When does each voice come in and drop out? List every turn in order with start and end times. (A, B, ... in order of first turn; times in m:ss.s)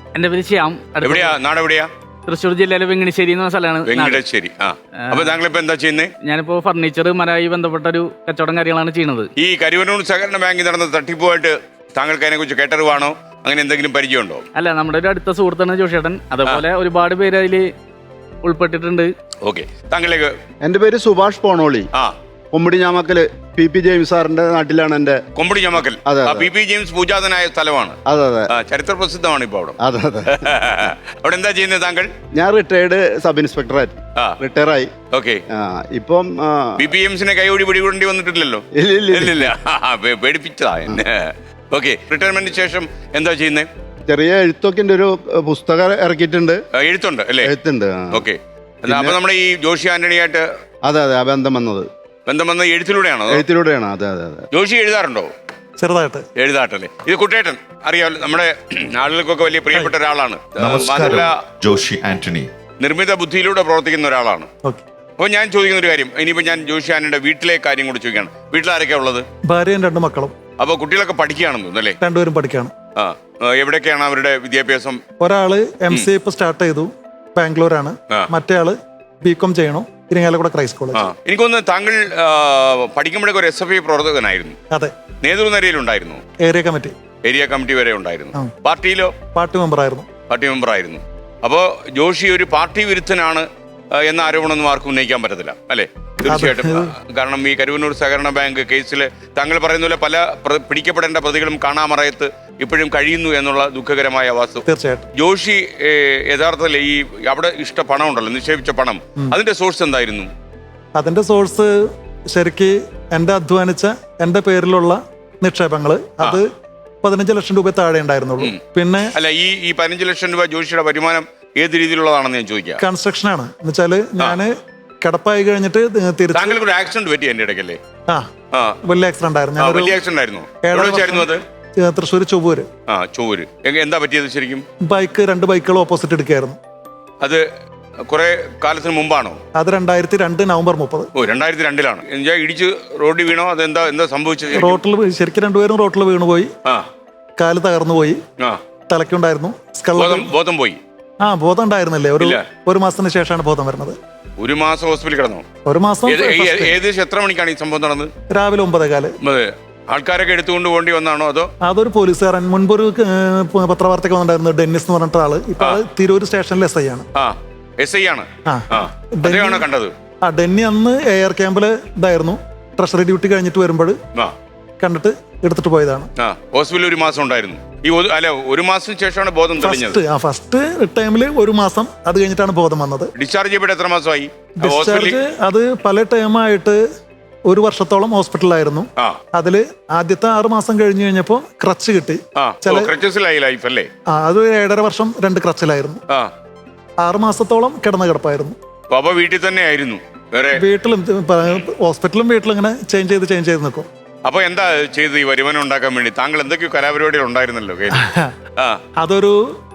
0:00.2-0:01.4 A
0:01.0-0:01.9 B
0:02.3-0:04.2 A
0:03.9-0:06.1 B
0:05.0-0:05.4 A
0:06.2-0:09.3 A
0:09.4-0:14.4 B
0:14.6-0:17.7 A
0:18.4-0:19.1 A
0:19.4-0:20.4 B
0:20.6-0:21.9 C
0:22.5-0:25.2 C
0:25.4-0:28.0 B
0:26.1-0:26.5 C
0:28.1-0:28.5 C
0:28.5-0:32.1 B
0:29.8-0:30.4 C
0:32.4-0:34.9 C
0:35.1-0:35.4 B
0:35.5-0:36.8 C
0:36.8-0:43.7 B
0:38.8-0:39.5 C
0:44.1-0:46.6 C
0:46.7-0:47.5 B
0:47.4-0:48.2 C
0:48.1-0:50.5 B
0:48.9-0:49.2 C
0:50.9-0:51.9 C
0:52.3-0:53.4 B
0:53.3-0:54.5 C
0:54.5-0:55.3 B
0:55.8-0:56.3 D
0:56.4-1:01.4 B
1:00.6-1:02.5 E
1:02.8-1:04.5 B
1:05.2-1:09.2 B
1:09.5-1:10.3 D
1:10.6-1:12.0 B
1:12.0-1:12.7 D
1:13.0-1:15.0 B
1:15.2-1:21.1 D
1:21.0-1:24.6 B
1:25.2-1:26.2 B
1:26.4-1:26.9 D
1:27.2-1:29.1 B
1:29.4-1:30.1 D
1:30.3-1:44.6 B
1:36.2-1:36.9 D
1:44.7-1:45.1 D
1:45.2-1:50.3 B
1:51.0-1:51.7 D
1:52.3-1:56.5 D
1:57.0-1:59.1 D
1:59.1-2:02.8 B
2:02.8-2:06.6 D
2:06.3-2:07.8 B
2:08.5-2:08.8 B
2:08.8-2:10.0 D
2:09.6-2:11.4 B
2:10.6-2:12.7 D
2:12.9-2:14.6 B
2:14.8-2:16.6 D
2:18.1-2:19.4 B
2:19.6-2:21.1 D
2:21.2-2:24.8 B
2:24.5-2:26.5 D
2:27.4-2:28.2 D
2:28.9-2:30.3 D
2:30.0-2:30.8 B
2:31.2-2:34.0 D
2:34.4-2:35.4 B
2:35.7-2:36.8 D
2:36.1-2:38.1 B
2:38.3-2:39.1 D
2:39.2-2:41.5 B
2:41.6-2:47.1 D
2:47.2-2:49.9 B
2:48.5-2:49.7 D
2:50.2-2:54.0 D
2:54.8-2:56.1 D
2:56.2-3:00.0 B
2:59.6-3:03.1 D
3:03.2-3:05.2 B
3:04.6-3:06.8 D
3:07.5-3:12.9 D
3:12.4-3:13.9 B
3:14.1-3:16.0 D
3:17.0-3:18.6 D
3:18.9-3:20.6 B
3:20.6-3:23.9 D
3:24.2-3:28.0 B
3:27.9-3:28.3 D
3:29.0-3:29.4 D